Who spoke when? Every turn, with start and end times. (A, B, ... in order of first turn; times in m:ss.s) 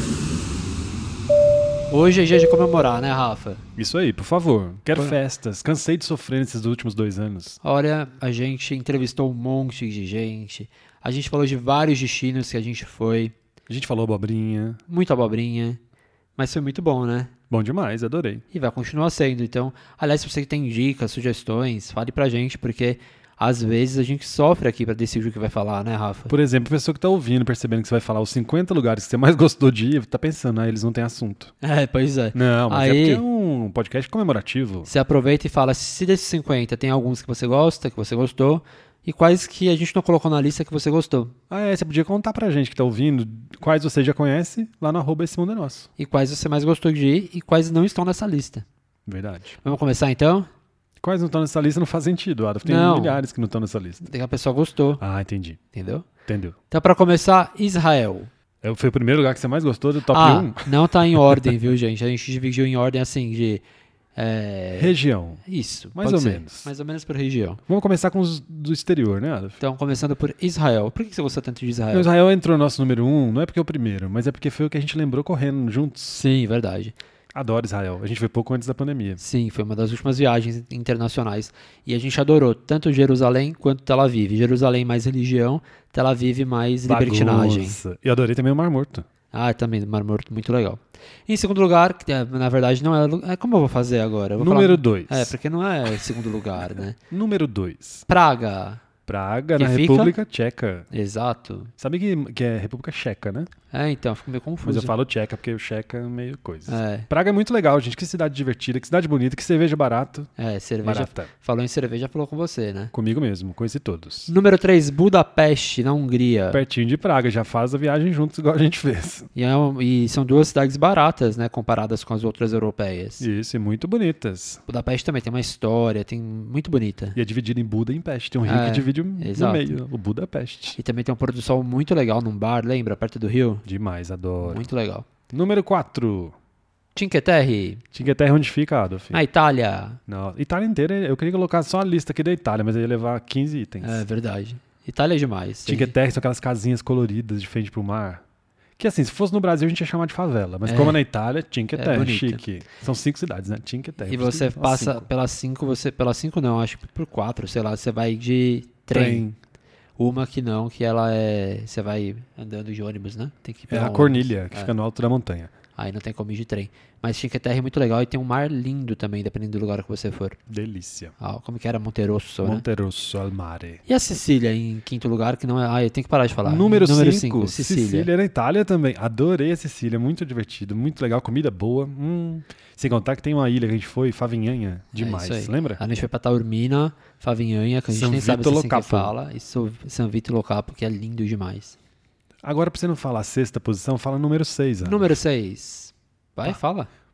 0:01.9-0:03.7 A
0:03.8-0:07.6 B
0:07.6-0:13.3 A
0:13.7-0:14.8 B
0:14.9-0:15.8 A
0:16.4-0:17.3 A
0:17.5-0:18.4 B
0:18.5-0:26.3 A
0:26.3-0:31.5 B
0:31.6-0:33.2 A
0:32.3-0:34.9 B
0:34.9-0:41.4 A
0:41.5-0:45.9 B
0:46.0-0:48.6 A
0:49.1-0:49.6 B
0:49.6-0:50.5 A
0:51.0-0:54.1 B
0:52.6-0:53.2 A
0:54.0-0:55.0 A
0:55.0-0:55.6 B
0:55.7-0:56.1 A
0:56.3-0:56.6 B
0:56.7-0:58.3 A
0:58.6-1:01.5 B
1:00.1-1:03.6 A
1:04.2-1:04.9 A
1:04.8-1:06.7 B
1:05.5-1:07.6 A
1:07.7-1:09.6 B
1:09.6-1:12.1 A
1:11.9-1:16.2 B
1:16.1-1:17.0 A
1:17.3-1:19.2 B
1:19.2-1:27.8 A
1:26.9-1:29.1 B
1:29.3-1:37.0 A
1:34.4-1:35.3 B
1:37.0-1:38.1 B
1:38.1-1:38.8 A
1:39.1-1:40.9 B
1:39.6-1:40.2 A
1:40.9-1:41.7 A
1:41.8-1:43.5 B
1:43.7-1:44.9 A
1:44.6-1:50.3 B
1:46.7-1:47.1 A
1:50.4-1:52.9 A
1:50.8-1:51.3 B
1:52.9-1:54.3 B
1:54.3-1:56.6 A
1:56.5-1:59.3 B
1:59.4-2:03.2 A
2:03.2-2:04.6 B
2:04.7-2:07.2 A
2:07.2-2:10.8 B
2:08.4-2:09.8 A
2:10.8-2:13.6 A
2:13.6-2:14.7 B
2:14.4-2:15.1 A
2:15.3-2:16.4 B
2:17.0-2:17.8 A
2:17.9-2:19.2 B
2:19.1-2:20.0 A
2:20.1-2:24.0 B
2:23.8-2:25.9 A
2:25.7-2:28.2 B
2:28.8-2:35.1 B
2:30.7-2:31.0 A
2:31.8-2:32.4 A
2:34.1-2:39.2 A
2:38.9-2:39.4 B
2:40.0-2:44.7 A
2:43.7-2:45.5 B
2:45.8-2:50.4 A
2:50.5-2:51.1 B
2:51.2-2:52.6 A
2:52.4-2:53.8 B
2:53.9-2:58.1 A
2:56.4-3:05.8 B
3:04.9-3:11.8 A
3:07.9-3:09.1 B
3:12.4-3:15.2 B
3:14.8-3:16.9 A